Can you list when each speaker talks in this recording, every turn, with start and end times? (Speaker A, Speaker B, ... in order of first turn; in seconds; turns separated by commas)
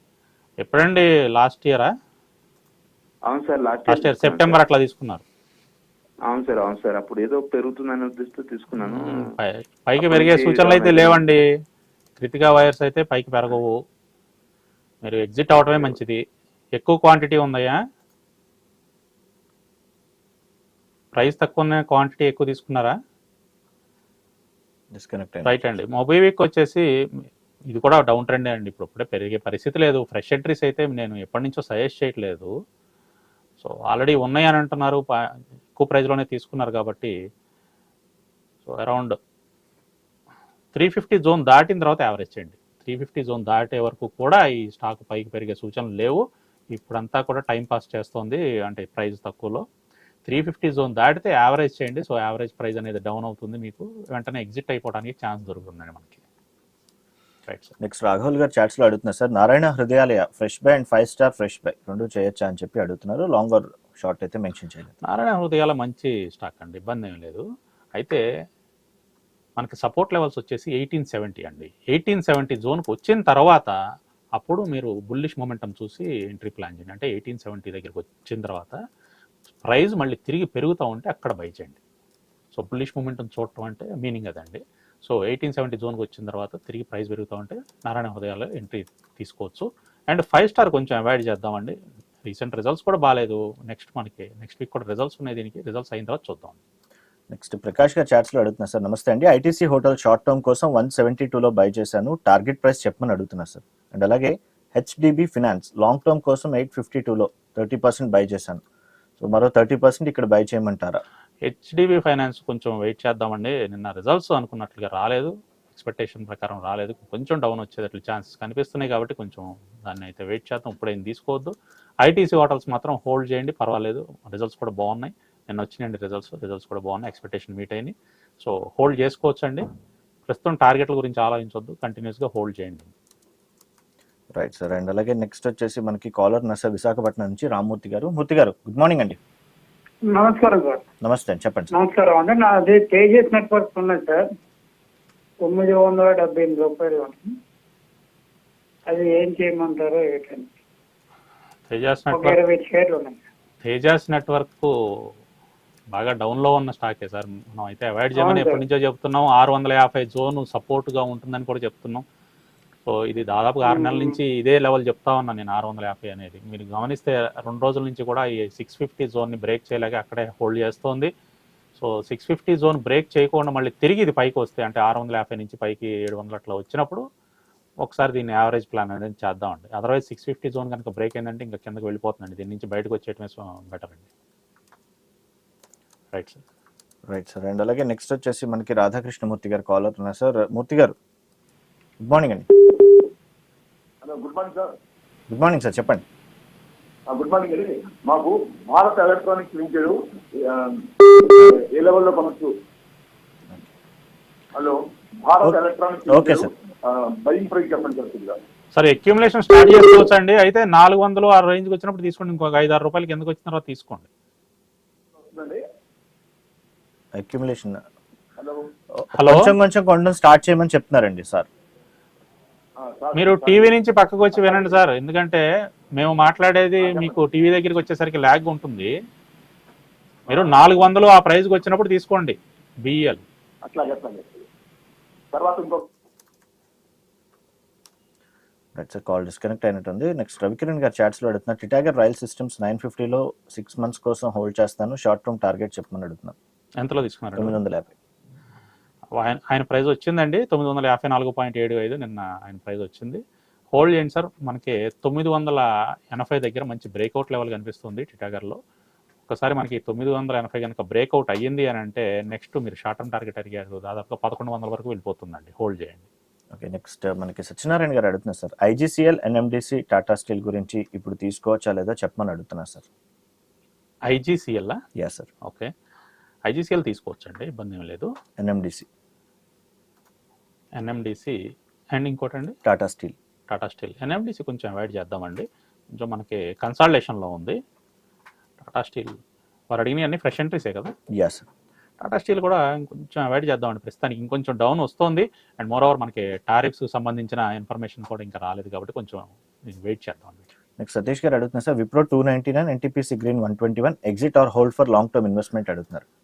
Speaker A: 0.6-1.9, Speaker B: 3.3-4.6, Speaker A: 3.9-5.2, Speaker B: 6.3-9.3, Speaker A: 8.8-11.4, Speaker B: 10.0-11.2, Speaker A: 12.2-13.7, Speaker A: 15.0-16.2, Speaker A: 16.8-17.8, Speaker A: 21.1-22.9, Speaker C: 24.9-25.6, Speaker A: 25.4-26.8, Speaker A: 27.7-32.5, Speaker A: 33.6-35.1, Speaker A: 35.8-37.1, Speaker A: 38.6-39.2, Speaker A: 40.7-49.6, Speaker A: 50.3-56.2, Speaker A: 57.5-57.7, Speaker C: 57.8-64.9, Speaker A: 65.0-67.4, Speaker A: 69.6-73.7, Speaker A: 74.4-78.8, Speaker A: 79.6-81.8, Speaker A: 82.5-96.6, Speaker C: 97.3-108.6, Speaker C: 109.2-111.0, Speaker A: 111.4-129.7, Speaker A: 130.3-132.9, Speaker C: 134.3-139.2, Speaker D: 140.1-140.8, Speaker C: 141.0-141.7, Speaker D: 141.7-144.2, Speaker D: 145.4-147.3, Speaker D: 148.9-150.5, Speaker A: 151.7-152.4, Speaker D: 152.1-153.2, Speaker A: 153.6-154.7, Speaker A: 155.9-162.0, Speaker D: 158.1-158.6, Speaker A: 162.8-171.1, Speaker D: 163.6-164.2, Speaker A: 171.8-177.0, Speaker A: 177.8-184.1, Speaker A: 186.1-186.4, Speaker C: 187.1-190.9, Speaker C: 192.0-192.5, Speaker E: 194.0-194.6, Speaker C: 195.3-196.0, Speaker E: 197.1-202.5, Speaker E: 204.6-208.3, Speaker C: 205.4-206.5, Speaker A: 208.7-214.1, Speaker E: 215.3-215.6, Speaker C: 217.1-217.8, Speaker C: 219.0-221.5, Speaker A: 219.1-219.5, Speaker E: 222.8-223.7, Speaker A: 223.1-225.4, Speaker E: 224.4-224.7, Speaker A: 226.0-228.9, Speaker E: 226.8-227.1, Speaker A: 230.3-233.2, Speaker E: 233.7-234.2, Speaker E: 235.3-235.8, Speaker C: 238.7-246.3, Speaker A: 246.8-247.6, Speaker C: 247.3-247.9, Speaker A: 249.2-253.2, Speaker A: 253.7-258.6, Speaker A: 259.3-266.1, Speaker C: 266.5-272.9, Speaker A: 274.1-274.8, Speaker C: 274.9-275.3, Speaker A: 275.4-275.7, Speaker A: 276.5-278.1, Speaker C: 278.4-278.9, Speaker A: 280.8-281.4, Speaker A: 281.9-282.6, Speaker C: 282.6-283.1, Speaker A: 283.5-287.6, Speaker A: 288.6-289.1, Speaker A: 289.7-290.9, Speaker C: 291.1-291.5, Speaker A: 292.0-300.4, Speaker C: 300.8-306.0